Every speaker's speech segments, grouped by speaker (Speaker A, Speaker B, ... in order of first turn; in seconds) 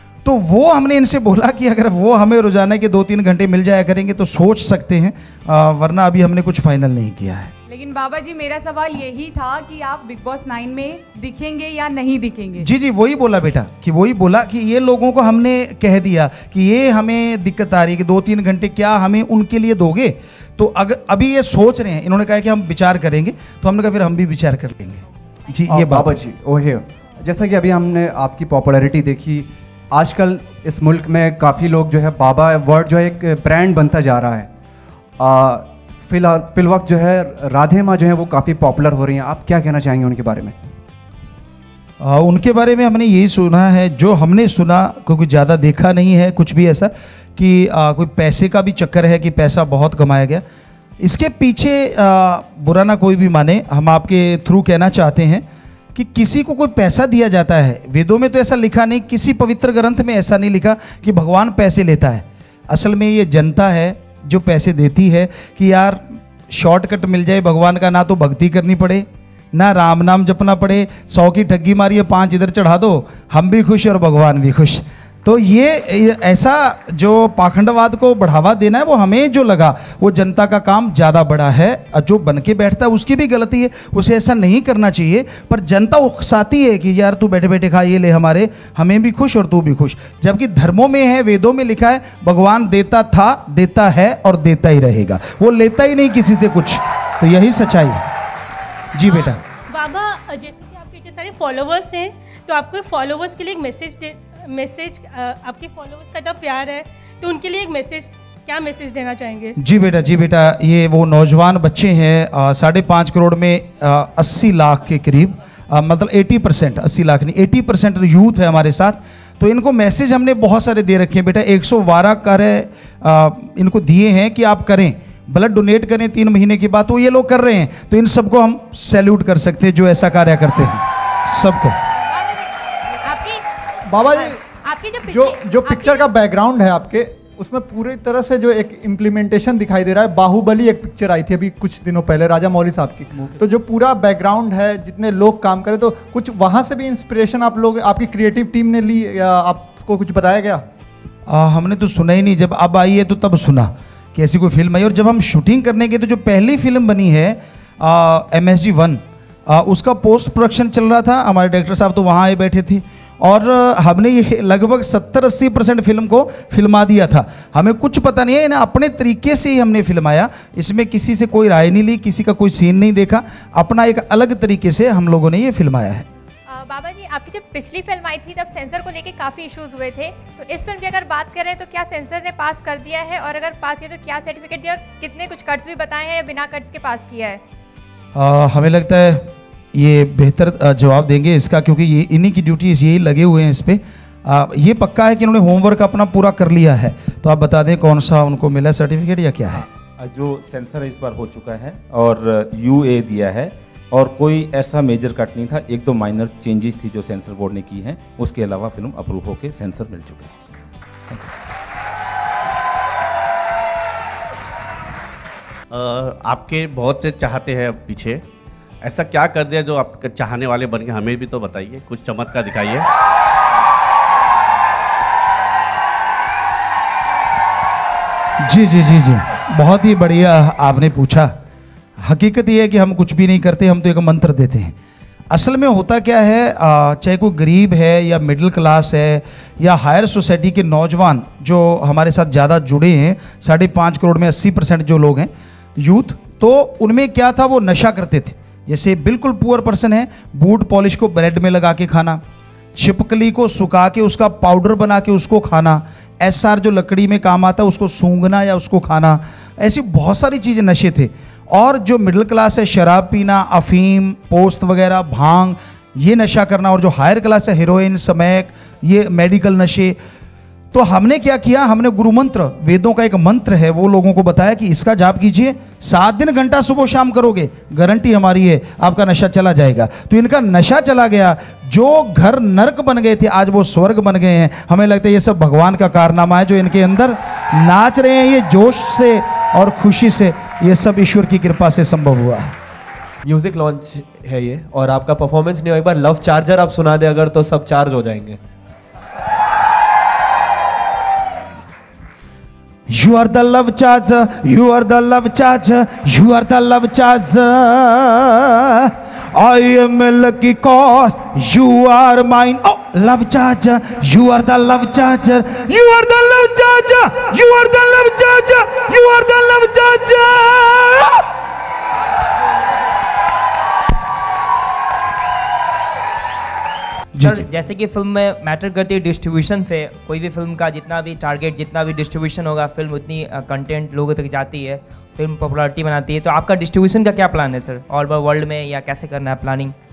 Speaker A: 0.2-7.5, 12.6-26.2, 42.0-50.4, 51.0-98.1, 98.9-99.4, 109.6-131.8, 151.2-176.1, 188.1-199.6, 228.4-231.3, 232.0-234.7, 235.3-252.2, 252.8-270.0, 270.7-292.5, 302.9-321.3, 327.1-327.4
Speaker B: 7.7-12.7
Speaker C: 25.7-34.5, 35.2-40.5
Speaker D: 99.7-109.6
Speaker E: 131.9-133.4, 133.9-136.1, 176.5-187.4
Speaker F: 133.9-134.4, 135.1-150.6
Speaker G: 199.6-210.5
Speaker H: 215.7-218.2, 218.8-222.8
Speaker I: 293.2-298.4
Speaker J: 327.2-339.7